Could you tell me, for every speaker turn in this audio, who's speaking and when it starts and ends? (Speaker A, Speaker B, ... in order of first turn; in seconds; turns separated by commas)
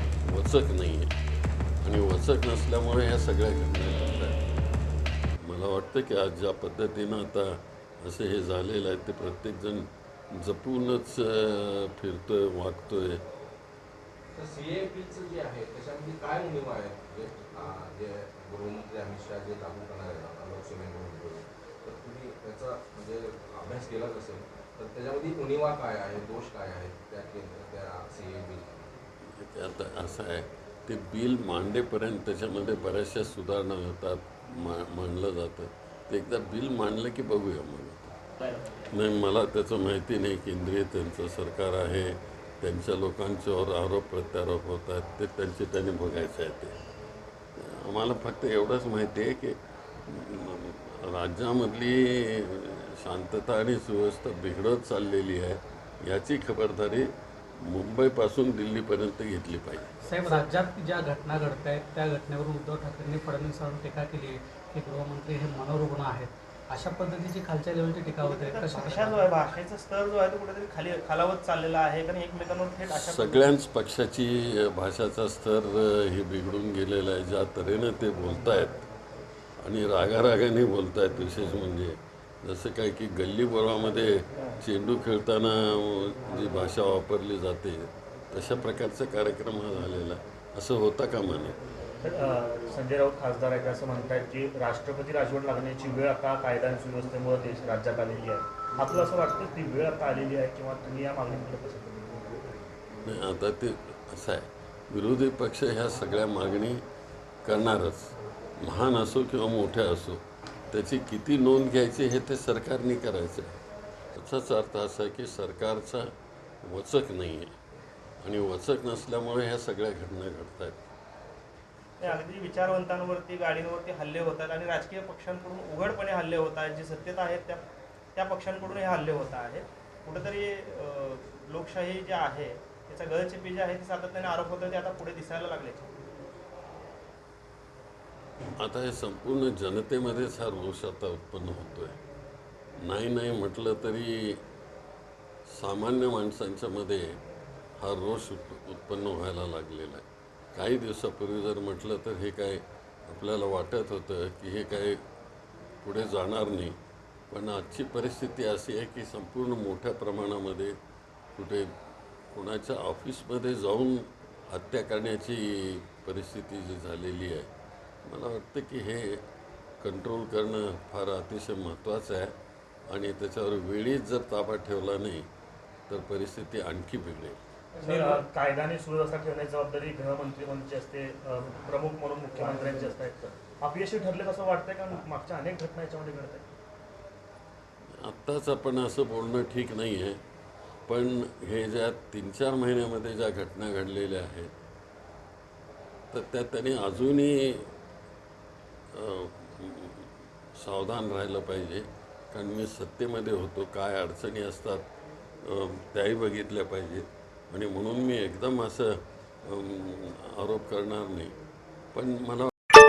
Speaker A: 0.3-1.1, Speaker A: 1.8-4.4, Speaker A: 5.4-13.2, Speaker B: 14.3-28.8, Speaker A: 29.3-38.1, Speaker A: 38.7-46.8, Speaker A: 47.6-49.6, Speaker A: 50.1-60.0, Speaker C: 60.0-69.3, Speaker D: 68.0-73.5, Speaker A: 72.9-78.9, Speaker A: 79.6-91.6, Speaker E: 92.0-102.0, Speaker A: 103.1-106.8, Speaker A: 107.4-113.6, Speaker A: 114.2-116.1, Speaker A: 116.6-117.5, Speaker A: 118.2-120.8, Speaker D: 122.0-127.6, Speaker D: 128.2-135.9, Speaker A: 138.6-142.0, Speaker A: 142.8-144.4, Speaker A: 145.5-147.1, Speaker A: 147.8-155.0, Speaker A: 155.8-156.8, Speaker A: 157.3-160.7, Speaker A: 161.4-161.7, Speaker A: 162.3-167.5, Speaker A: 168.1-169.2, Speaker A: 169.8-172.3, Speaker A: 172.9-175.3, Speaker A: 175.9-177.4, Speaker E: 177.8-186.5, Speaker A: 188.0-190.2, Speaker A: 190.9-194.5, Speaker A: 196.1-197.7, Speaker A: 198.9-204.8, Speaker A: 205.4-208.9, Speaker A: 209.4-211.3, Speaker A: 211.9-212.5